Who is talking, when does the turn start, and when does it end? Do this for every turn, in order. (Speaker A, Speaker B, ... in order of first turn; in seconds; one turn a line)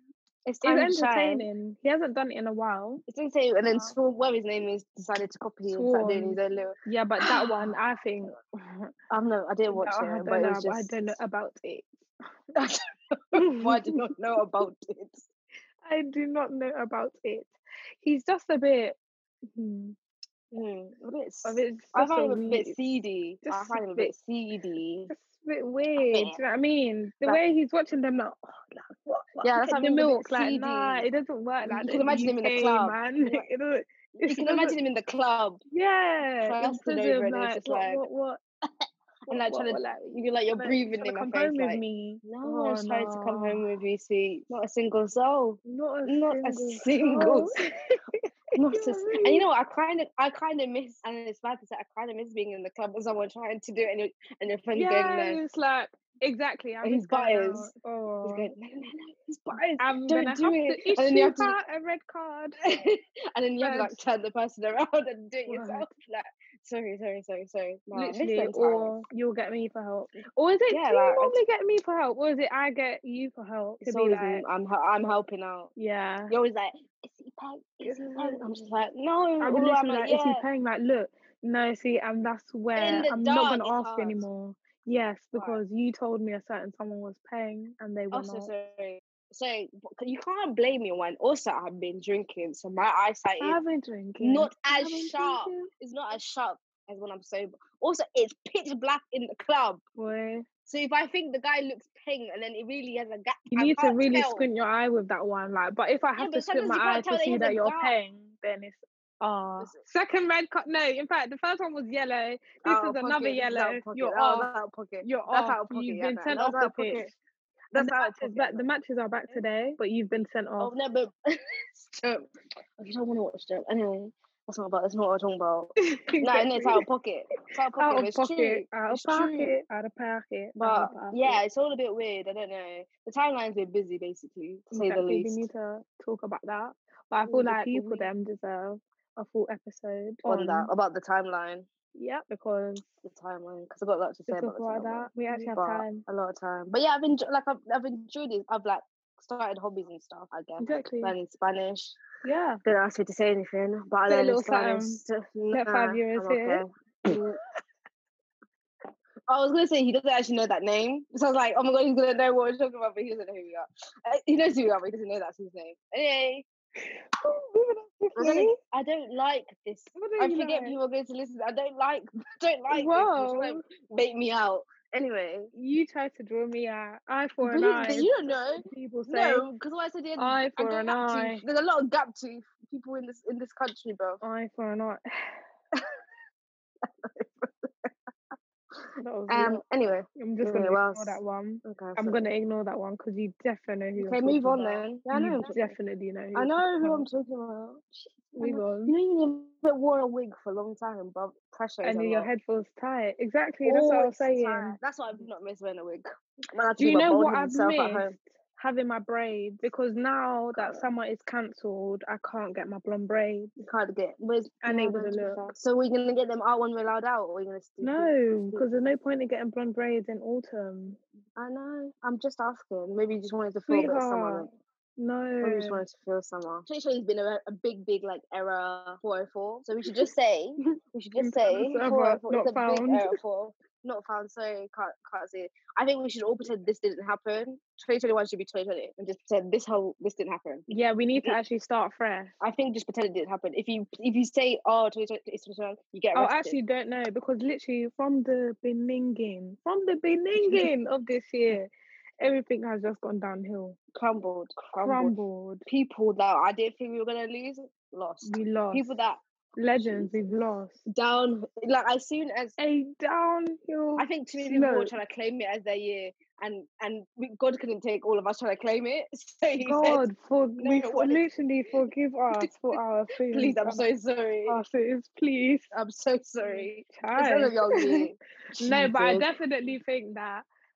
Speaker A: 0.5-1.5
Speaker B: 0.6-3.0
Speaker A: 3.1-7.7
Speaker B: 3.6-3.9
Speaker B: 5.7-8.9
Speaker A: 9.1-11.1
Speaker B: 9.7-12.1
Speaker A: 12.6-15.3
Speaker B: 13.3-14.0
Speaker B: 15.8-19.0
Speaker B: 19.6-20.0
Speaker A: 20.5-25.1
Speaker B: 21.4-22.8
Speaker B: 23.4-24.1
Speaker B: 25.1-34.8
Speaker A: 26.0-26.4
Speaker A: 29.4-31.1
Speaker A: 31.7-33.5
Speaker A: 34.3-35.6
Speaker B: 35.7-38.4
Speaker A: 36.4-38.0
Speaker B: 39.3-43.7
Speaker A: 39.3-47.7
Speaker B: 45.6-47.7
Speaker A: 48.5-55.4
Speaker B: 48.7-49.5
Speaker B: 54.7-58.5
Speaker A: 56.8-57.7
Speaker A: 58.2-61.5
Speaker B: 59.8-62.6
Speaker A: 62.6-69.0
Speaker B: 63.6-64.0
Speaker B: 65.5-65.9
Speaker B: 67.9-74.5
Speaker A: 70.7-71.4
Speaker A: 73.8-75.7
Speaker B: 75.8-76.3
Speaker A: 76.3-80.5
Speaker B: 77.8-78.4
Speaker B: 79.4-88.5
Speaker A: 82.8-84.2
Speaker A: 85.3-85.6
Speaker A: 88.1-93.6
Speaker B: 93.4-95.7
Speaker A: 94.2-99.8
Speaker B: 100.0-100.5
Speaker A: 100.7-104.5
Speaker B: 103.5-114.5
Speaker A: 106.2-108.0
Speaker A: 109.6-109.8
Speaker A: 112.6-117.1
Speaker B: 115.0-117.1
Speaker A: 117.7-118.7
Speaker B: 117.8-120.7
Speaker A: 120.6-129.6
Speaker B: 125.8-126.8
Speaker B: 127.8-131.4
Speaker A: 130.6-135.5
Speaker B: 134.7-140.7
Speaker A: 137.3-138.1
Speaker A: 140.3-141.7
Speaker B: 141.9-142.9
Speaker A: 143.0-152.0
Speaker B: 144.3-146.1
Speaker B: 150.6-151.1
Speaker B: 152.2-152.6
Speaker A: 152.6-157.3
Speaker B: 154.1-157.4
Speaker A: 159.3-166.5
Speaker B: 167.2-168.6
Speaker A: 168.2-175.5
Speaker B: 169.9-170.8
Speaker B: 172.7-173.6
Speaker B: 175.6-179.5
Speaker A: 177.4-184.2
Speaker B: 180.2-181.4
Speaker B: 184.2-185.4
Speaker A: 186.8-187.9
Speaker B: 189.0-189.6
Speaker A: 189.3-192.3
Speaker B: 190.2-197.1
Speaker A: 194.0-195.8
Speaker A: 196.3-202.3
Speaker B: 198.3-199.0
Speaker B: 201.8-204.8
Speaker A: 203.7-208.2
Speaker B: 206.8-213.5
Speaker A: 210.5-210.9
Speaker A: 213.6-218.6
Speaker B: 214.6-215.5
Speaker B: 217.8-221.0
Speaker A: 221.4-224.5
Speaker B: 223.7-224.5
Speaker B: 225.0-225.8
Speaker A: 225.4-240.7
Speaker B: 231.2-233.2
Speaker B: 240.7-242.4
Speaker A: 242.4-246.6
Speaker B: 246.1-251.7
Speaker A: 250.4-250.7
Speaker B: 252.2-253.8
Speaker A: 253.9-259.2
Speaker B: 254.8-255.7
Speaker B: 258.2-259.0
Speaker B: 259.6-260.8
Speaker A: 259.8-260.3
Speaker A: 260.9-262.6
Speaker B: 262.6-264.9
Speaker A: 264.0-270.1
Speaker B: 269.6-273.9
Speaker A: 270.6-271.3
Speaker A: 272.4-274.6
Speaker B: 274.5-275.7
Speaker A: 275.7-279.3
Speaker B: 276.4-278.1
Speaker B: 278.6-280.4